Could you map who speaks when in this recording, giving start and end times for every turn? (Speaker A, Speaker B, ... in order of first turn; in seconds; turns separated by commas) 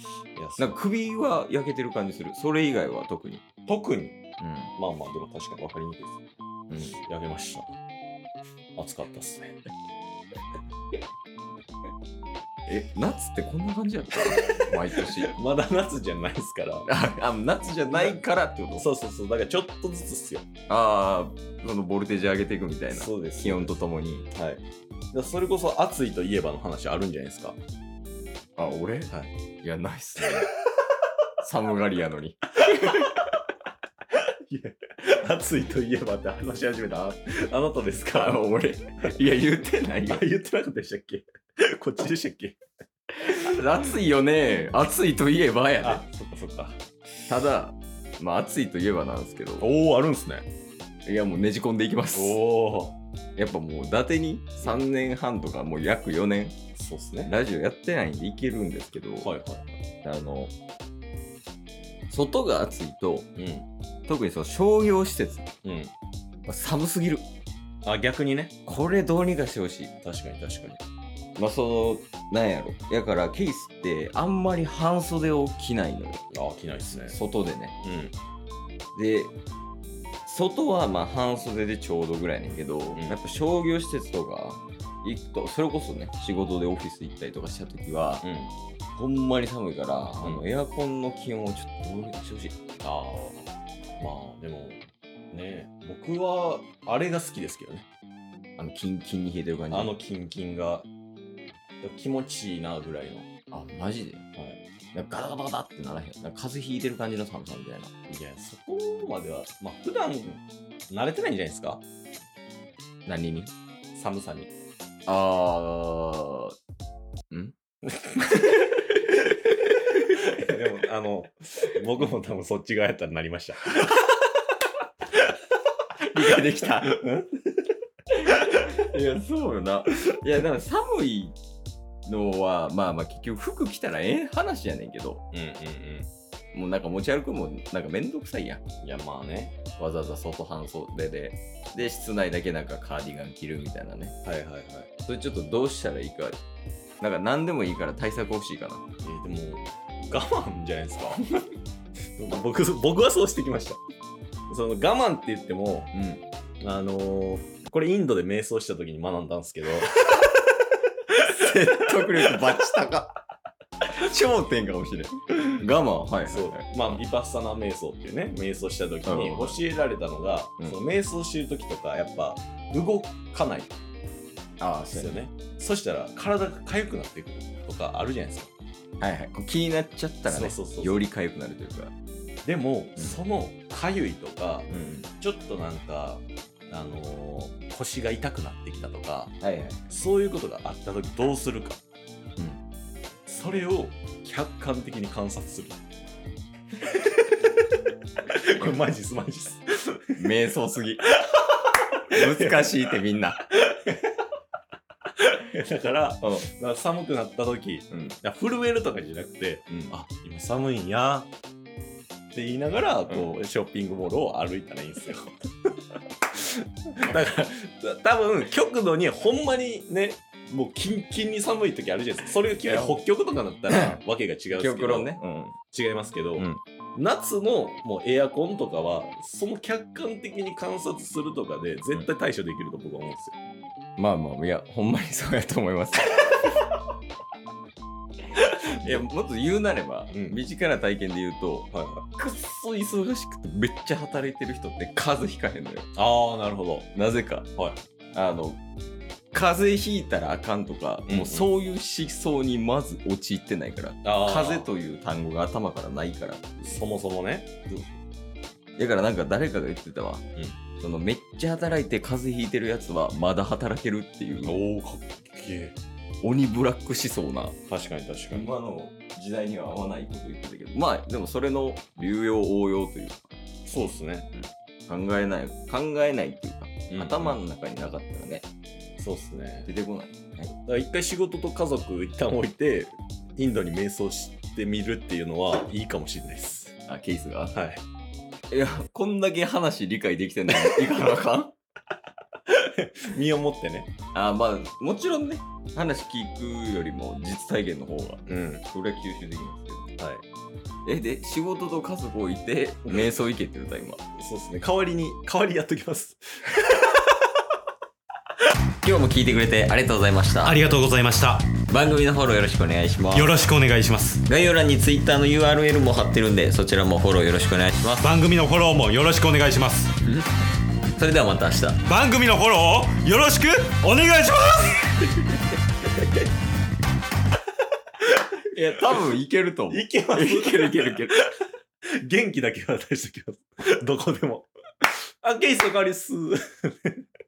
Speaker A: 0.3-0.7, Speaker B: 0.6-3.4, Speaker A: 3.7-4.2, Speaker B: 4.4-4.7, Speaker A: 4.8-6.2, Speaker B: 6.7-7.0, Speaker A: 7.0-7.8, Speaker A: 8.8-9.6, Speaker B: 12.7-15.3, Speaker A: 14.3-16.9, Speaker B: 16.9-18.9, Speaker A: 17.8-18.2, Speaker A: 18.8-20.4, Speaker B: 20.7-24.3, Speaker A: 22.9-23.8, Speaker A: 24.3-24.6, Speaker A: 25.1-27.6, Speaker B: 28.6-30.5, Speaker B: 31.4-33.3, Speaker A: 32.6-33.3, Speaker A: 34.1-38.4, Speaker B: 38.1-40.2, Speaker A: 40.1-42.6, Speaker B: 43.1-46.0, Speaker A: 45.8-46.8, Speaker B: 47.3-49.7, Speaker A: 49.6-50.4, Speaker B: 51.0-52.4, Speaker A: 52.1-52.9, Speaker B: 53.4-56.5, Speaker A: 56.8-57.3, Speaker B: 57.2-59.3, Speaker A: 59.2-59.6, Speaker B: 60.0-60.5, Speaker B: 62.1-63.3, Speaker A: 63.4-63.7, Speaker B: 64.1-65.5, Speaker A: 65.6-65.9, Speaker B: 66.5-67.2, Speaker A: 67.8-68.5, Speaker B: 68.7-69.9, Speaker A: 70.0-70.8, Speaker B: 71.4-76.3, Speaker A: 76.3-77.2, Speaker B: 77.0-77.8, Speaker A: 77.8-78.1, Speaker B: 78.9-79.3, Speaker B: 80.2-88.2, Speaker A: 88.2-88.5, Speaker B: 88.9-92.5, Speaker A: 90.2-90.4, Speaker A: 92.8-97.8, Speaker B: 98.6-99.9, Speaker A: 99.7-100.9, Speaker A: 101.8-103.3, Speaker B: 103.5-104.2, Speaker B: 104.9-107.9, Speaker A: 108.1-111.8, Speaker B: 113.0-113.5, Speaker A: 113.9-114.5, Speaker B: 115.1-116.5, Speaker B: 118.2-120.0, Speaker A: 120.1-123.8, Speaker B: 126.0-127.0, Speaker A: 126.3-127.6, Speaker B: 128.1-131.4, Speaker B: 132.1-135.2, Speaker A: 135.3-136.1, Speaker B: 136.5-138.6, Speaker A: 138.8-139.6, Speaker B: 139.8-144.2, Speaker A: 144.2-144.9, Speaker B: 145.1-146.4, Speaker B: 147.0-148.8, Speaker A: 149.0-151.2, Speaker A: 152.2-153.8, Speaker A: 154.5-155.9, Speaker B: 155.9-156.2, Speaker A: 156.6-159.9, Speaker B: 161.2-163.2, Speaker A: 161.5-162.3, Speaker B: 164.0-167.0, Speaker A: 166.2-173.7, Speaker B: 169.1-169.6, Speaker B: 174.6-175.2, Speaker A: 174.9-178.5, Speaker B: 179.0-181.9, Speaker A: 180.2-180.9, Speaker A: 182.4-189.3, Speaker B: 184.7-185.1, Speaker B: 189.4-189.8, Speaker A: 189.9-191.8, Speaker A: 193.3-195.8, Speaker A: 198.3-200.2, Speaker B: 200.2-201.0, Speaker A: 201.1-203.0, Speaker B: 202.1-203.5, Speaker A: 203.5-204.2, Speaker A: 205.1-211.3, Speaker B: 207.9-208.2, Speaker A: 212.3-215.4, Speaker A: 216.9-233.3, Speaker B: 222.6-223.0, Speaker B: 223.7-225.6, Speaker B: 234.0-236.5, Speaker B: 238.3-245.9, Speaker A: 240.1-240.4, Speaker A: 241.7-242.0, Speaker A: 245.9-246.9, Speaker B: 246.9-247.5, Speaker B: 248.1-248.6, Speaker B: 249.3-256.8, Speaker A: 251.1-251.5, Speaker A: 254.0-254.7, Speaker A: 256.6-257.8, Speaker B: 258.8-260.2, Speaker B: 260.8-264.6, Speaker A: 264.4-265.8, Speaker B: 266.2-267.6, Speaker A: 267.7-268.5, Speaker B: 268.3-273.4, Speaker A: 273.6-274.3, Speaker B: 274.3-278.4, Speaker A: 276.9-277.4, Speaker A: 279.0-279.7, Speaker B: 279.6-280.5, Speaker A: 280.6-286.8, Speaker B: 286.9-287.6, Speaker A: 287.5-287.8, Speaker B: 288.5-291.6, Speaker A: 292.5-293.9, Speaker B: 294.1-299.9, Speaker A: 298.3-298.6, Speaker A: 300.0-300.2, Speaker B: 300.8-304.0, Speaker A: 302.9-303.1, Speaker A: 304.2-306.8, Speaker B: 308.8-310.7, Speaker C: 310.4-311.5, Speaker B: 311.6-313.4, Speaker C: 313.1-314.2, Speaker B: 314.2-318.1, Speaker C: 317.9-320.0, Speaker B: 320.9-321.8, Speaker C: 321.8-325.0, Speaker B: 328.5-331.2, Speaker A: 329.7-331.2, Speaker A: 332.0-337.0